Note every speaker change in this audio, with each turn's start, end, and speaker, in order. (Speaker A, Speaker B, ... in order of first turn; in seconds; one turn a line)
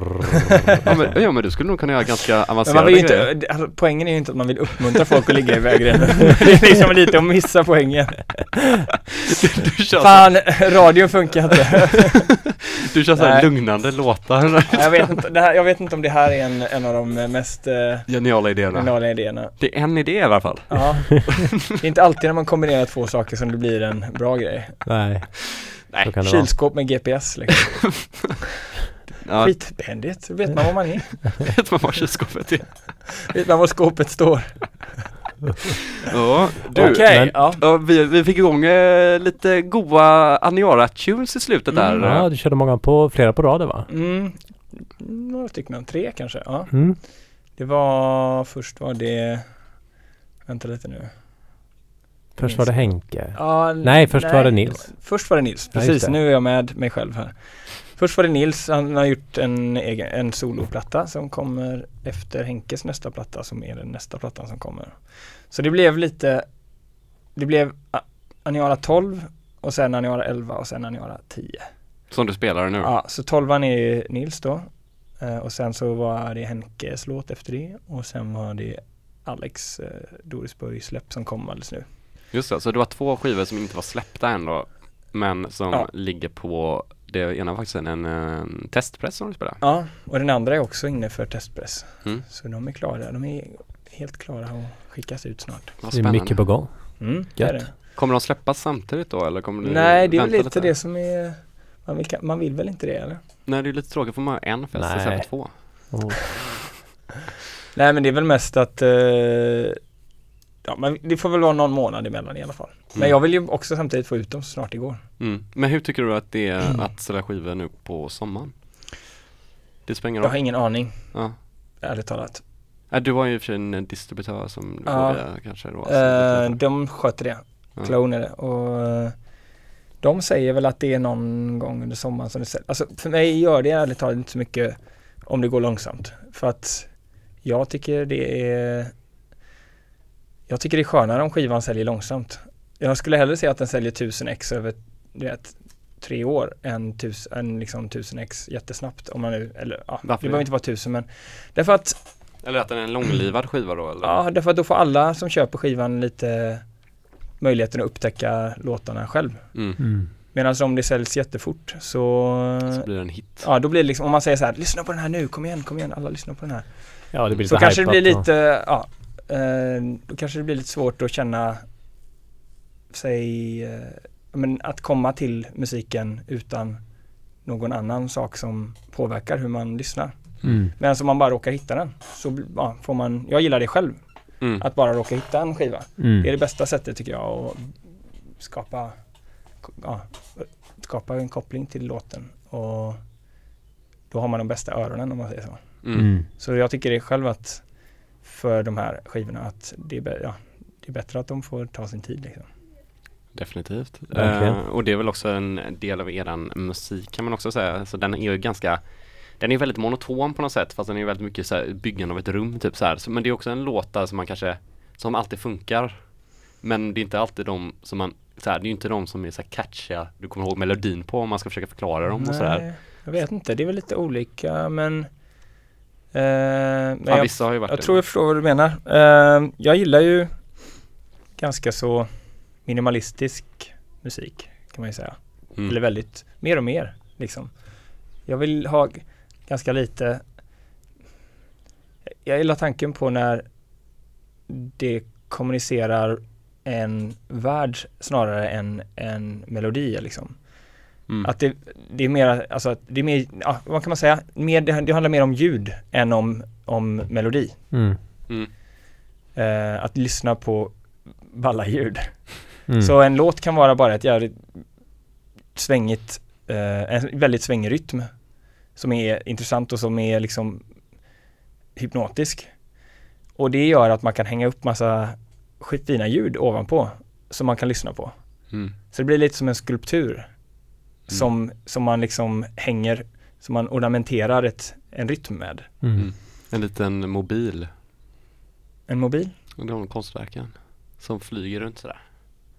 Speaker A: 0.8-3.3
Speaker B: 2.6-8.7
Speaker A: 9.3-10.9
Speaker B: 10.0-12.3
Speaker A: 12.9-15.1
Speaker B: 13.2-13.5
Speaker B: 14.7-19.6
Speaker A: 18.1-21.5
Speaker B: 20.7-25.1
Speaker C: 24.9-26.5
Speaker A: 25.9-26.1
Speaker B: 26.2-28.2
Speaker A: 29.2-29.6
Speaker B: 29.4-31.4
Speaker A: 31.4-32.8
Speaker B: 33.2-35.2
Speaker A: 36.1-42.3
Speaker B: 36.7-37.6
Speaker C: 36.7-37.3
Speaker C: 42.0-43.9
Speaker B: 43.9-49.9
Speaker C: 46.7-47.0
Speaker B: 50.4-51.1
Speaker C: 52.3-55.2
Speaker B: 52.4-71.7
Speaker C: 55.7-56.1
Speaker A: 72.1-72.9
Speaker B: 72.8-81.8
Speaker A: 82.3-89.6
Speaker B: 89.6-95.8
Speaker A: 95.8-96.6
Speaker C: 95.9-97.6
Speaker B: 97.0-97.7
Speaker A: 97.7-100.7
Speaker B: 99.6-103.2
Speaker A: 103.5-105.9
Speaker C: 104.7-106.3
Speaker B: 107.7-109.8
Speaker B: 110.6-115.0
Speaker A: 115.2-118.5
Speaker A: 119.8-121.4
Speaker B: 120.2-122.5
Speaker A: 122.9-126.6
Speaker B: 124.8-129.4
Speaker B: 130.0-138.9
Speaker B: 140.5-152.3
Speaker A: 150.0-150.5
Speaker A: 152.4-154.2
Speaker B: 154.0-156.8
Speaker B: 157.4-171.6
Speaker A: 159.5-159.8
Speaker C: 159.8-160.1
Speaker A: 162.7-163.5
Speaker C: 167.1-168.3
Speaker B: 172.9-176.8
Speaker B: 177.4-189.0
Speaker C: 180.5-180.7
Speaker C: 186.0-186.3
Speaker B: 189.5-193.0
Speaker B: 194.1-202.5
Speaker A: 195.8-196.1
Speaker C: 195.9-196.3
Speaker A: 203.3-222.7
Speaker C: 204.1-204.6
Speaker B: 222.1-225.2
Speaker B: 226.1-240.2
Speaker A: 227.1-228.0
Speaker B: 242.2-243.4
Speaker B: 244.5-257.7
Speaker C: 257.7-258.0
Speaker B: 259.3-265.0
Speaker C: 262.7-262.9
Speaker B: 265.5-271.1
Speaker B: 271.7-272.7
Speaker B: 273.4-285.7
Speaker C: 285.8-286.1
Speaker A: 285.9-287.7
Speaker B: 288.9-289.3
Speaker A: 289.6-292.0